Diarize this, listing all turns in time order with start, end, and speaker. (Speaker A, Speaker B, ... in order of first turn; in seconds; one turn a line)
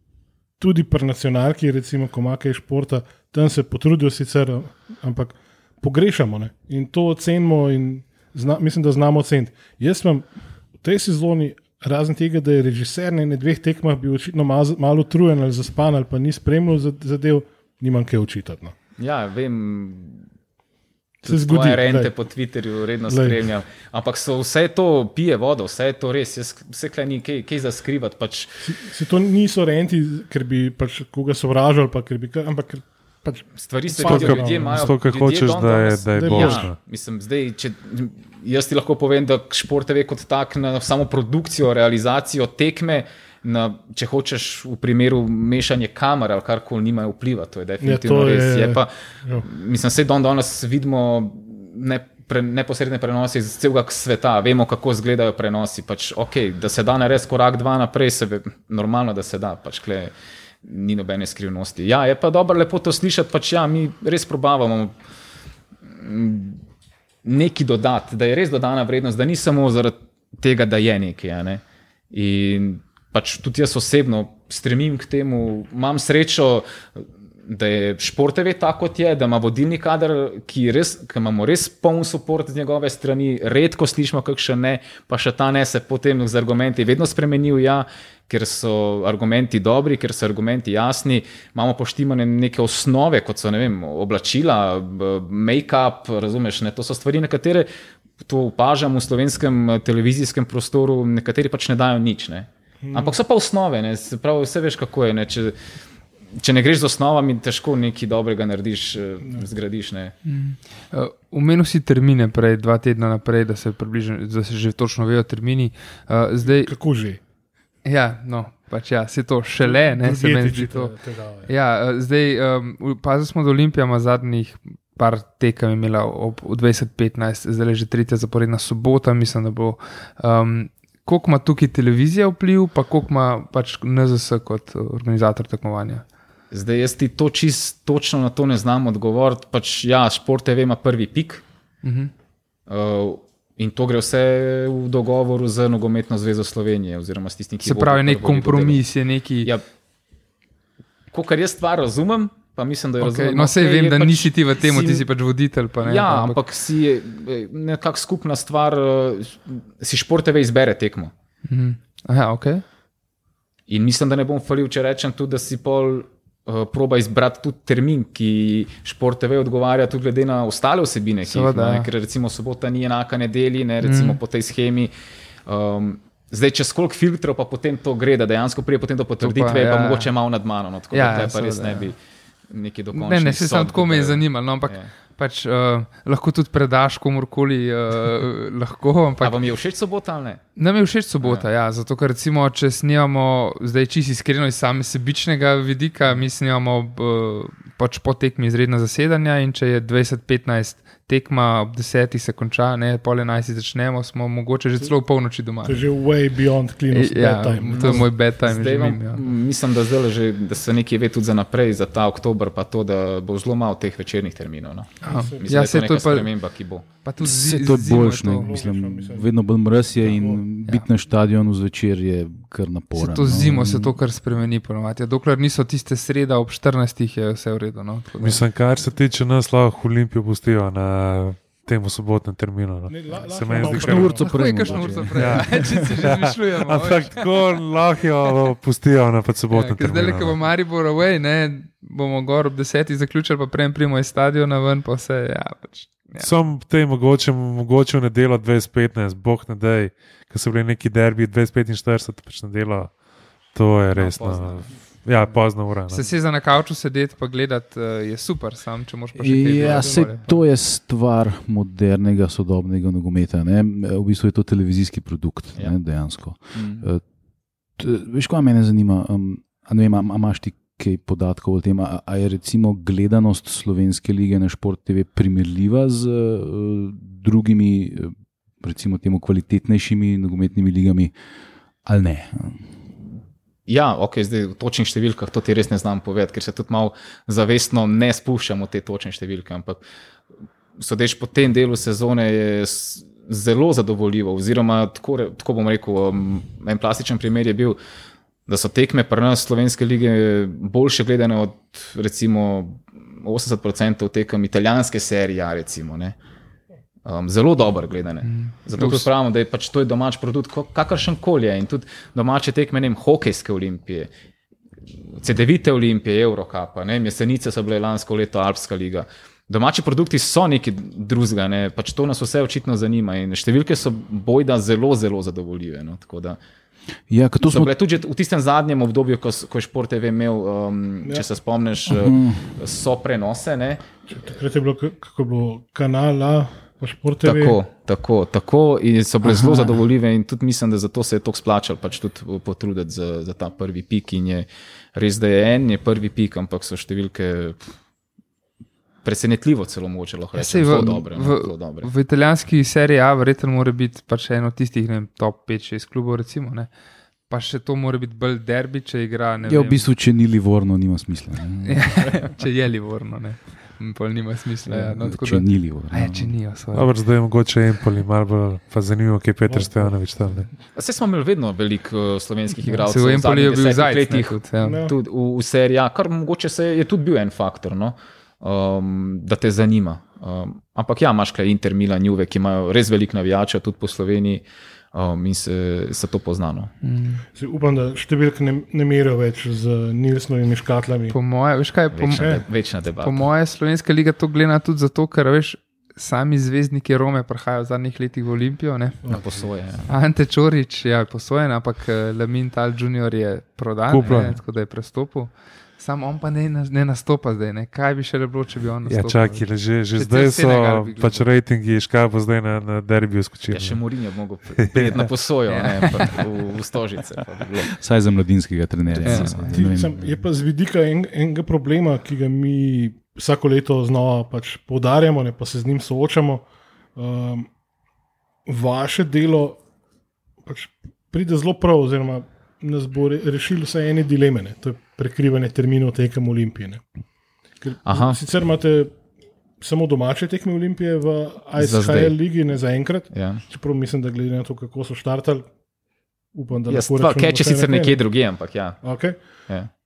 Speaker A: 0.6-18.7
Speaker B: 19.0-20.2
Speaker A: 21.2-22.1
Speaker B: 21.2-28.6
Speaker A: 23.1-23.4
Speaker A: 28.6-35.0
Speaker B: 33.6-64.9
Speaker C: 34.0-36.8
Speaker A: 36.1-36.7
Speaker A: 47.8-49.5
Speaker B: 65.8-66.6
Speaker B: 67.2-97.7
Speaker B: 98.2-105.5
Speaker A: 102.8-103.2
Speaker B: 106.3-110.1
Speaker D: 110.2-116.8
Speaker A: 116.4-117.2
Speaker D: 117.8-136.0
Speaker A: 119.6-121.5
Speaker B: 136.5-141.4
Speaker D: 141.8-142.1
Speaker B: 142.7-148.8
Speaker D: 147.6-149.5
Speaker B: 151.1-155.1
Speaker D: 153.0-156.4
Speaker B: 155.8-161.1
Speaker D: 161.5-162.6
Speaker B: 163.7-174.9
Speaker D: 171.2-171.9
Speaker D: 173.8-174.2
Speaker B: 175.4-181.9
Speaker D: 179.2-180.1
Speaker D: 180.9-181.9
Speaker B: 182.5-184.9
Speaker D: 182.9-189.4
Speaker B: 189.2-190.4
Speaker D: 190.6-205.8
Speaker B: 191.2-191.4
Speaker A: 205.6-208.1
Speaker D: 206.9-209.2
Speaker B: 207.7-216.8
Speaker D: 215.0-216.3
Speaker A: 215.0-215.5
Speaker D: 216.9-218.5
Speaker E: 217.2-224.0
Speaker A: 218.1-220.4
Speaker D: 222.9-228.4
Speaker C: 228.2-234.3
Speaker A: 232.9-235.1
Speaker E: 233.5-236.0
Speaker D: 234.2-237.5
Speaker C: 235.2-240.4
Speaker D: 239.5-246.3
Speaker C: 246.2-253.0
Speaker C: 253.5-256.0
Speaker B: 253.9-254.7
Speaker D: 255.2-260.3
Speaker E: 259.1-267.0
Speaker A: 259.7-260.1
Speaker B: 266.5-266.9
Speaker E: 267.8-281.1
Speaker E: 281.8-282.6
Speaker B: 283.7-289.8
Speaker B: 290.8-297.8
Speaker B: 298.5-306.1
Speaker B: 307.0-314.1
Speaker D: 308.2-308.6
Speaker B: 315.2-326.4
Speaker E: 327.1-327.7
Speaker B: 327.4-333.8
Speaker E: 331.9-332.5
Speaker A: 334.1-337.6
Speaker B: 337.2-347.6
Speaker E: 339.2-339.8
Speaker B: 349.0-351.9
Speaker D: 350.3-356.7
Speaker D: 357.3-359.9
Speaker E: 359.4-361.8
Speaker D: 361.6-366.9
Speaker E: 364.7-366.3
Speaker C: 366.7-370.5
Speaker A: 369.5-370.1
Speaker B: 370.7-386.7
Speaker D: 372.6-374.8
Speaker A: 374.6-374.9
Speaker D: 386.8-387.2
Speaker A: 387.3-391.2
Speaker D: 391.1-392.4
Speaker B: 391.9-393.2
Speaker A: 392.1-392.4
Speaker D: 393.0-399.1
Speaker A: 399.0-399.4
Speaker B: 399.1-399.9
Speaker D: 399.9-411.3
Speaker C: 403.9-404.4
Speaker C: 408.9-413.8
Speaker B: 413.5-417.7
Speaker C: 414.6-415.1
Speaker D: 415.5-416.3
Speaker E: 417.7-420.2
Speaker B: 418.9-419.5
Speaker D: 419.0-419.4
Speaker A: 419.5-427.5
Speaker A: 428.4-429.6
Speaker A: 430.4-436.8
Speaker A: 437.6-439.0
Speaker B: 437.9-438.2
Speaker A: 439.6-445.5
Speaker B: 441.6-442.1
Speaker B: 443.1-443.4
Speaker A: 446.3-448.0
Speaker B: 446.7-449.7
Speaker A: 448.8-449.2